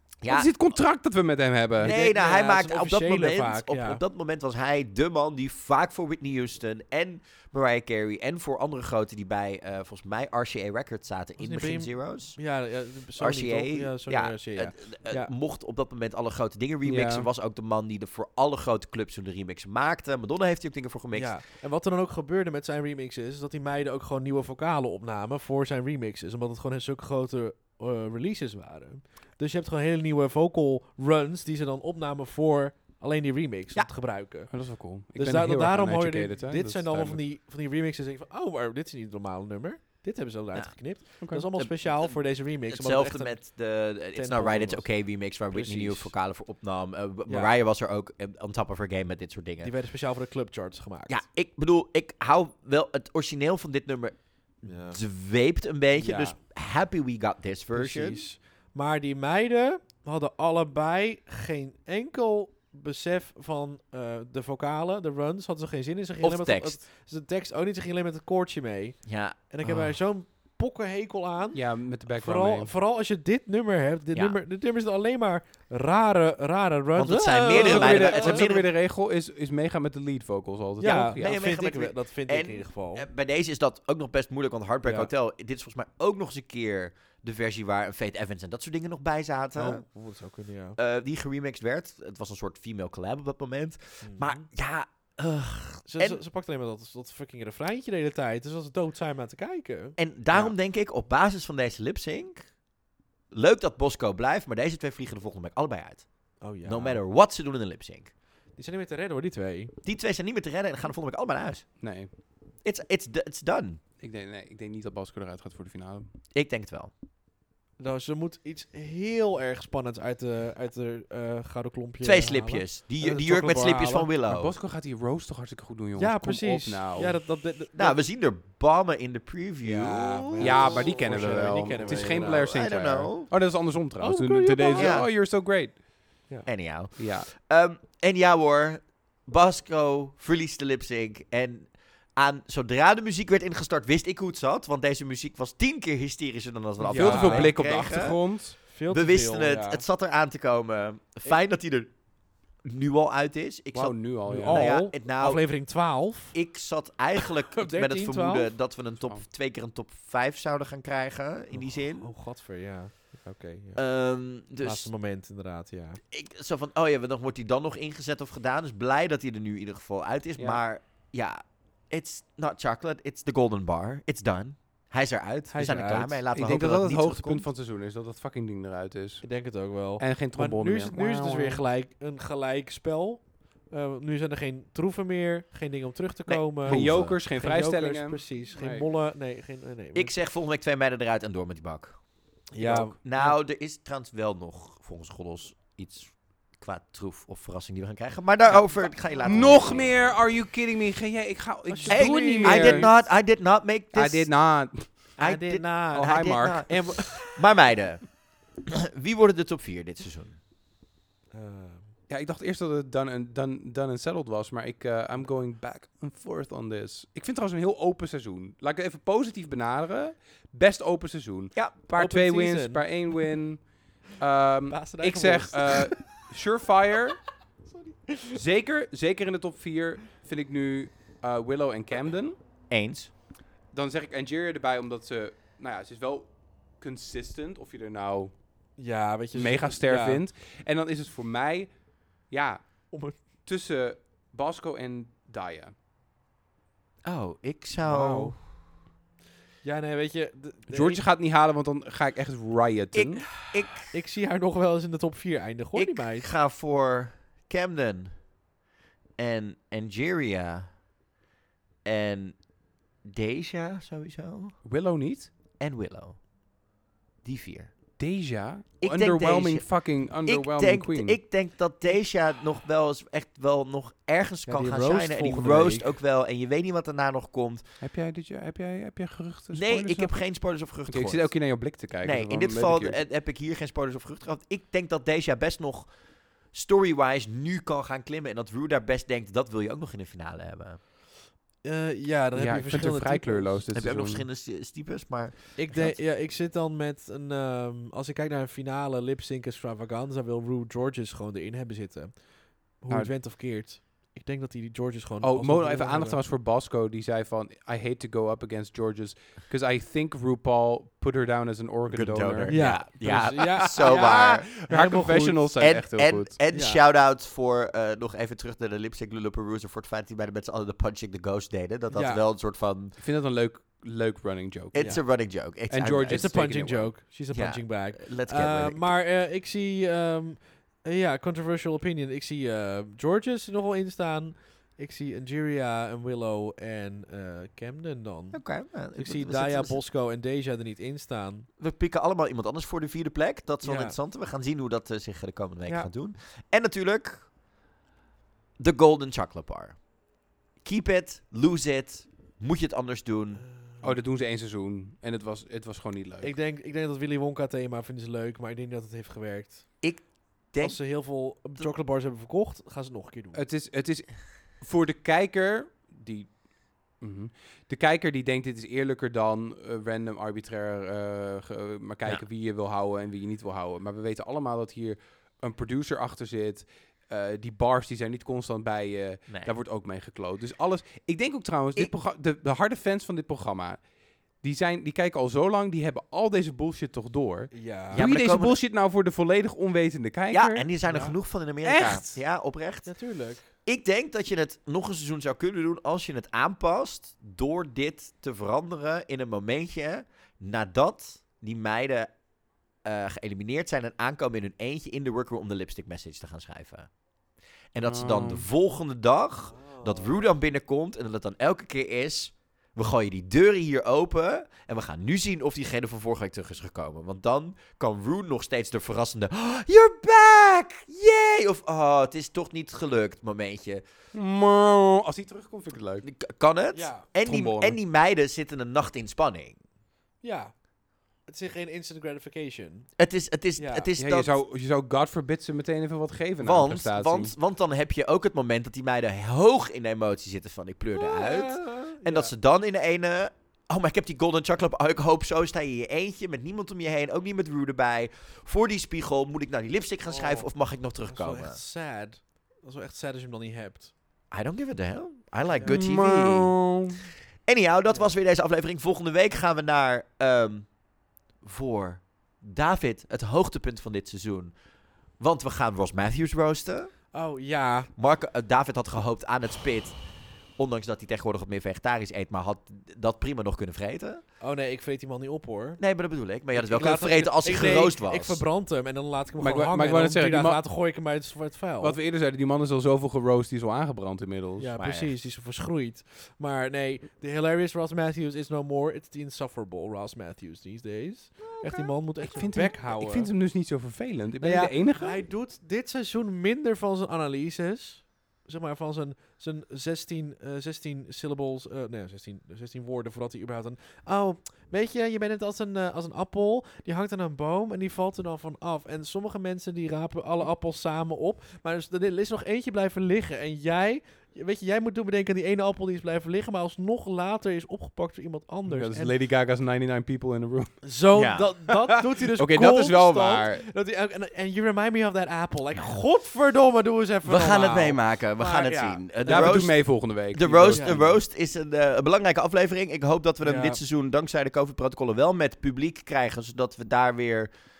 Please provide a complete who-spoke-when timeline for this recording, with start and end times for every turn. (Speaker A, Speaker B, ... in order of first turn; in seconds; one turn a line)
Speaker A: 0.2-0.5
Speaker B: 0.3-1.9
Speaker A: 1.8-12.4
Speaker C: 1.8-4.0
Speaker C: 11.4-15.3
Speaker A: 13.2-21.4
Speaker B: 16.8-17.3
Speaker C: 21.1-43.5
Speaker B: 34.5-37.2
Speaker B: 41.2-41.5
Speaker A: 41.5-49.7
Speaker C: 44.1-46.1
Speaker C: 47.2-47.5
Speaker C: 49.6-51.2
Speaker A: 51.1-54.2
Speaker C: 54.6-55.0
Speaker A: 54.9-58.2
Speaker C: 56.0-56.4
Speaker C: 57.7-78.5
Speaker A: 66.2-66.8
Speaker A: 69.0-69.4
Speaker B: 69.6-69.9
Speaker B: 71.5-72.7
Speaker A: 77.0-78.7
Speaker B: 77.5-81.3
Speaker C: 80.8-83.1
Speaker A: 81.2-89.8
Speaker C: 84.8-85.1
Speaker C: 89.5-90.8
Speaker A: 90.8-96.2
Speaker C: 94.0-94.3
Speaker C: 95.8-100.5
Speaker A: 100.0-102.5
Speaker A: 103.3-108.1
Speaker C: 106.4-107.0
Speaker C: 108.5-109.7
Speaker A: 109.8-111.7
Speaker B: 111.8-112.1
Speaker A: 112.6-113.8
Speaker B: 114.0-116.1
Speaker A: 116.3-116.9
Speaker C: 117.8-124.1
Speaker A: 122.0-124.5
Speaker B: 124.3-127.2
Speaker C: 126.0-128.0
Speaker A: 127.7-130.9
Speaker C: 129.6-132.5
Speaker B: 130.4-135.8
Speaker A: 131.8-133.3
Speaker C: 134.0-135.0
Speaker A: 134.7-135.1
Speaker A: 136.4-148.2
Speaker B: 137.0-137.3
Speaker C: 146.8-147.6
Speaker B: 146.9-148.6
Speaker C: 148.7-149.8
Speaker A: 148.9-151.9
Speaker A: 152.6-155.4
Speaker B: 153.7-154.8
Speaker C: 154.3-156.4
Speaker A: 156.3-162.1
Speaker C: 157.2-158.5
Speaker C: 161.5-163.9
Speaker A: 163.8-164.9
Speaker C: 164.6-166.0
Speaker A: 166.1-177.5
Speaker C: 175.5-176.2
Speaker B: 176.3-179.3
Speaker C: 179.2-190.1
Speaker B: 180.0-181.6
Speaker A: 186.3-187.2
Speaker B: 186.6-188.9
Speaker A: 189.9-192.0
Speaker C: 192.5-193.3
Speaker A: 192.6-200.0
Speaker B: 192.6-192.9
Speaker B: 198.5-202.9
Speaker C: 201.7-203.1
Speaker A: 201.9-204.4
Speaker B: 203.9-205.1
Speaker A: 205.2-210.4
Speaker C: 205.2-207.3
Speaker B: 205.9-206.9
Speaker C: 211.3-211.9
Speaker B: 212.1-227.3
Speaker C: 221.9-223.2
Speaker C: 224.7-226.1
Speaker C: 227.7-228.4
Speaker B: 228.3-232.4
Speaker A: 232.7-233.1
Speaker B: 233.7-238.3
Speaker C: 238.8-240.2
Speaker B: 239.3-241.7
Speaker B: 242.3-242.6
Speaker B: 243.4-245.7
Speaker A: 247.0-248.4
Speaker C: 247.8-248.3
Speaker C: 249.6-251.0
Speaker B: 250.7-253.3
Speaker A: 252.9-253.9
Speaker C: 253.8-256.3
Speaker A: 255.8-258.1
Speaker A: 259.2-260.7
Speaker A: 261.8-262.4
Speaker A: 263.0-264.5
Speaker B: 264.6-265.3
Speaker A: 265.6-266.2
Speaker A: 267.2-267.7
Speaker B: 268.0-271.2
Speaker A: 268.8-277.6
Speaker C: 274.4-276.0
Speaker B: 277.8-280.1
Speaker A: 279.5-285.9
Speaker B: 280.9-283.0
Speaker A: 286.5-290.8
Speaker C: 291.6-293.6
Speaker B: 292.3-294.2
Speaker A: 293.7-296.0
Speaker C: 295.6-306.2
Speaker B: 305.2-316.4
Speaker A: 311.9-314.5
Speaker C: 312.5-315.5
Speaker A: 315.6-323.0
Speaker C: 316.5-316.8
Speaker C: 321.9-322.2
Speaker B: 323.0-325.1
Speaker A: 324.7-329.0
Speaker C: 324.7-325.0
Speaker B: 325.7-326.8
Speaker C: 326.0-341.5
Speaker A: 338.3-339.8
Speaker A: 341.6-347.3
Speaker C: 343.6-344.0
Speaker A: 348.6-349.8
Speaker A: 350.6-353.4
Speaker C: 353.4-353.9
Speaker B: 353.8-356.3
Speaker C: 356.2-359.7
Speaker A: 359.8-360.8
Speaker C: 360.6-363.4
Speaker B: 363.3-366.4
Speaker B: 367.0-383.8
Speaker B: 384.4-390.7
Speaker C: 387.5-388.1
Speaker A: 387.9-388.6
Speaker A: 390.3-392.9
Speaker C: 390.8-391.1
Speaker B: 391.6-392.1
Speaker C: 392.8-393.4
Speaker A: 393.6-402.1
Speaker A: 402.8-406.9
Speaker A: 407.7-423.8
Speaker B: 407.9-408.4
Speaker C: 409.5-410.3
Speaker B: 424.1-426.1
Speaker A: 426.0-429.6
Speaker C: 426.7-427.1
Speaker B: 427.2-427.8
Speaker C: 430.2-430.5
Speaker C: 431.2-432.9
Speaker A: 433.0-434.3
Speaker C: 433.6-433.9
Speaker B: 434.0-437.3
Speaker A: 436.4-451.6
Speaker C: 440.9-442.3
Speaker C: 450.1-450.5
Speaker C: 451.1-453.9
Speaker A: 454.3-456.6
Speaker C: 455.5-455.8
Speaker B: 455.7-457.0
Speaker A: 457.4-460.7
Speaker A: 461.4-464.6
Speaker A: 465.2-466.9
Speaker C: 467.1-467.9
Speaker A: 467.9-470.0
Speaker A: 470.6-474.2
Speaker C: 474.4-475.8
Speaker A: 475.8-478.4
Speaker C: 476.5-482.0
Speaker B: 479.4-480.6
Speaker B: 481.8-484.7
Speaker C: 484.6-493.3
Speaker A: 484.8-485.1
Speaker A: 491.4-491.9
Speaker B: 492.2-495.2
Speaker C: 494.4-519.1
Speaker B: 518.6-520.8
Speaker C: 520.8-529.7
Speaker A: 521.1-521.5
Speaker B: 521.7-523.7
Speaker A: 527.2-537.5
Speaker B: 529.2-531.1
Speaker C: 530.6-531.1
Speaker C: 533.4-533.8